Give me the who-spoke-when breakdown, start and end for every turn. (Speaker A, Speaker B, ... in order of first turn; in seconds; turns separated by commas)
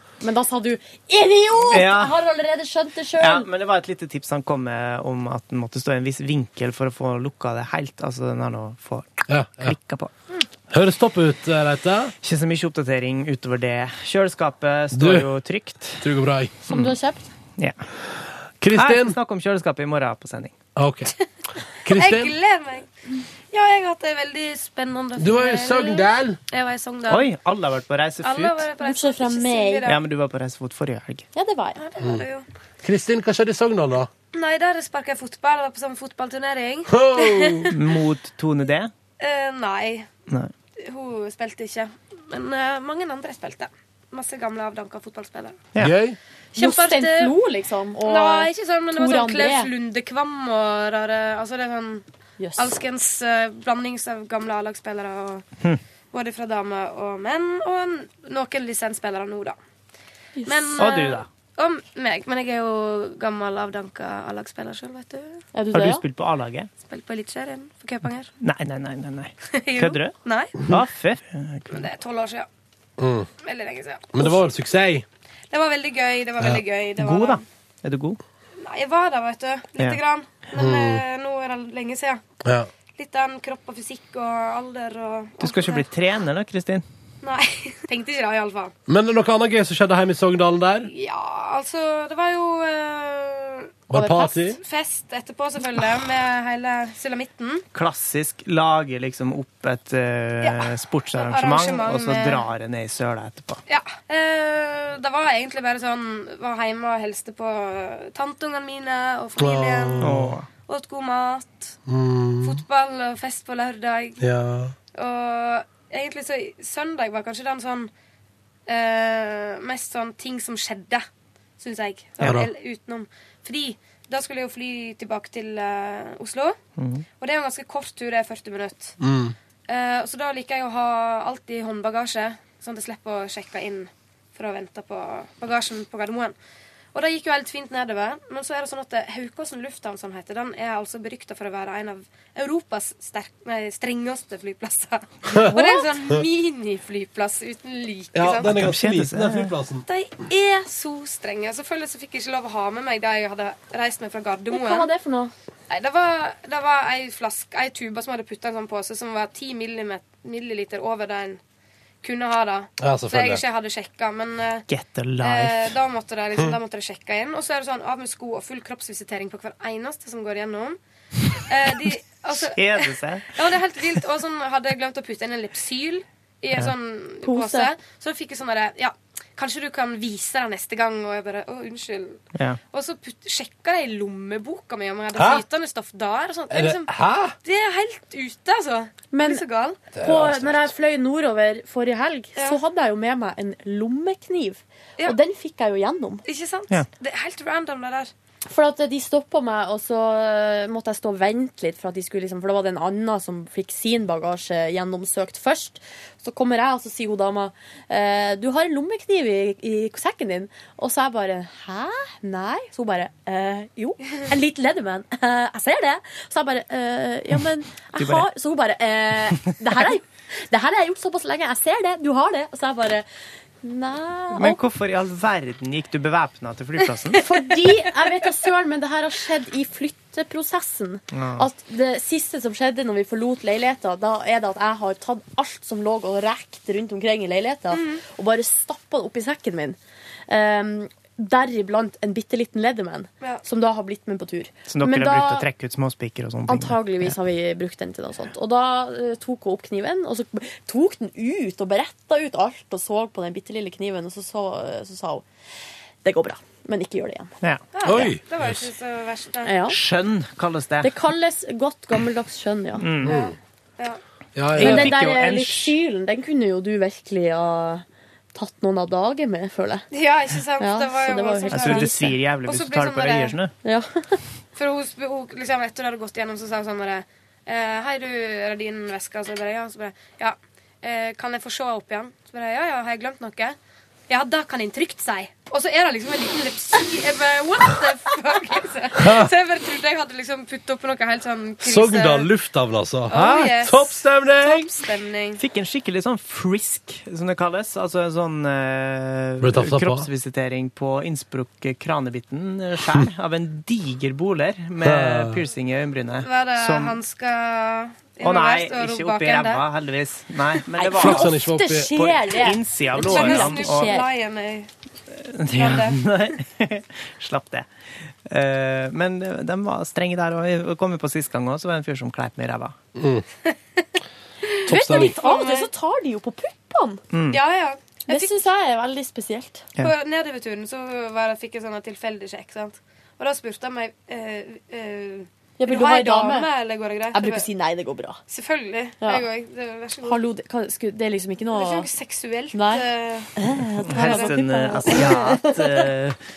Speaker A: 0.2-3.5, Speaker B: 1.7-2.1, Speaker B: 3.2-10.1, Speaker C: 9.3-9.8, Speaker C: 10.7-12.1, Speaker B: 12.2-16.1, Speaker C: 14.9-15.3, Speaker C: 16.0-16.5, Speaker A: 16.7-17.2, Speaker C: 18.6-19.2, Speaker B: 18.7-20.6, Speaker C: 20.8-21.1, Speaker C: 21.8-22.3, Speaker D: 21.9-22.9, Speaker D: 23.5-27.3, Speaker C: 25.2-26.4, Speaker B: 27.1-28.7, Speaker D: 28.2-30.0, Speaker A: 28.8-29.9, Speaker B: 29.8-31.3, Speaker A: 31.3-31.8, Speaker D: 31.8-32.5, Speaker C: 32.8-34.1, Speaker D: 34.3-37.8, Speaker C: 36.9-37.7, Speaker B: 37.7-38.9, Speaker D: 39.2-40.1, Speaker D: 40.8-45.6, Speaker C: 45.8-46.2, Speaker D: 46.5-47.3, Speaker A: 46.5-49.7, Speaker D: 48.0-52.0, Speaker A: 52.4-52.8, Speaker D: 52.6-55.4, Speaker D: 56.1-59.6, Speaker A: 60.4-60.9, Speaker D: 60.5-65.4, Speaker B: 60.8-61.2, Speaker A: 65.5-66.0, Speaker B: 65.7-66.7, Speaker D: 66.8-68.3, Speaker B: 68.4-71.9, Speaker D: 69.5-70.7, Speaker D: 71.7-72.5, Speaker C: 73.0-73.3, Speaker D: 73.4-74.4, Speaker C: 74.1-75.0, Speaker D: 75.5-77.4, Speaker B: 77.0-78.2, Speaker D: 78.6-82.2, Speaker C: 80.5-81.0, Speaker C: 82.4-82.7, Speaker D: 82.9-85.9, Speaker B: 85.4-86.8, Speaker D: 87.2-88.7, Speaker C: 88.9-90.9, Speaker D: 90.8-93.7, Speaker C: 93.9-94.6, Speaker A: 93.9-94.3, Speaker D: 94.3-97.6, Speaker B: 97.7-103.6, Speaker D: 100.4-102.5, Speaker D: 103.7-111.8, Speaker C: 109.4-110.3, Speaker B: 110.0-110.5, Speaker C: 111.9-112.6, Speaker D: 112.4-114.2, Speaker C: 114.2-114.7, Speaker D: 114.9-117.9, Speaker D: 118.7-121.1, Speaker D: 121.6-126.6, Speaker C: 122.2-122.5, Speaker B: 126.8-127.0, Speaker D: 127.2-128.9, Speaker C: 129.0-129.3, Speaker D: 129.7-136.3, Speaker D: 136.9-148.5, Speaker A: 145.3-145.9, Speaker C: 148.1-149.8, Speaker B: 148.4-149.5, Speaker D: 149.8-154.9, Speaker A: 154.5-155.3, Speaker D: 155.7-161.4, Speaker D: 162.0-164.7, Speaker C: 162.8-163.4, Speaker B: 164.7-165.8, Speaker D: 165.2-170.8, Speaker D: 171.5-186.9, Speaker B: 172.3-173.4, Speaker A: 177.2-177.7, Speaker C: 185.1-185.4, Speaker C: 186.5-187.3, Speaker D: 187.4-189.8, Speaker A: 189.1-196.2, Speaker C: 189.9-190.7, Speaker D: 196.2-198.1, Speaker A: 198.5-223.0, Speaker B: 218.0-218.3, Speaker A: 223.6-224.6, Speaker B: 224.3-227.2, Speaker A: 227.2-245.4, Speaker B: 231.1-231.4, Speaker D: 237.7-238.0, Speaker B: 244.7-247.1, Speaker A: 246.5-255.2, Speaker A: 256.0-257.3, Speaker D: 257.7-259.6, Speaker C: 257.8-258.6, Speaker A: 259.4-259.8, Speaker B: 259.7-260.9, Speaker A: 260.8-262.9, Speaker B: 262.8-263.2, Speaker C: 263.0-263.3, Speaker D: 263.1-264.0, Speaker C: 264.4-264.9, Speaker B: 264.6-265.7, Speaker A: 264.6-269.9, Speaker D: 269.9-271.9, Speaker A: 270.6-272.2, Speaker B: 271.5-273.5, Speaker D: 272.4-273.4, Speaker A: 273.6-274.2, Speaker D: 274.6-283.6, Speaker D: 284.1-292.3, Speaker C: 289.0-289.3, Speaker C: 291.6-294.7, Speaker D: 293.1-295.4, Speaker B: 295.4-307.0, Speaker C: 299.4-300.1, Speaker C: 304.8-305.4, Speaker D: 306.2-309.6, Speaker B: 308.2-311.4, Speaker A: 310.8-314.1, Speaker C: 311.0-312.0, Speaker B: 311.9-313.9, Speaker D: 312.9-314.7, Speaker B: 315.1-317.6, Speaker D: 315.5-316.1, Speaker B: 318.3-322.7, Speaker C: 322.9-323.2, Speaker D: 324.4-325.7, Speaker C: 324.7-325.2, Speaker A: 324.7-327.0, Speaker B: 327.1-327.4, Speaker D: 327.3-328.3, Speaker A: 328.1-329.6, Speaker D: 329.8-337.5, Speaker A: 335.6-336.5, Speaker A: 337.1-338.2, Speaker D: 338.3-340.2, Speaker A: 339.0-339.2, Speaker A: 340.0-341.9, Speaker D: 341.5-343.3, Speaker A: 342.5-345.9, Speaker B: 343.9-346.2, Speaker D: 343.9-344.3, Speaker D: 344.9-345.2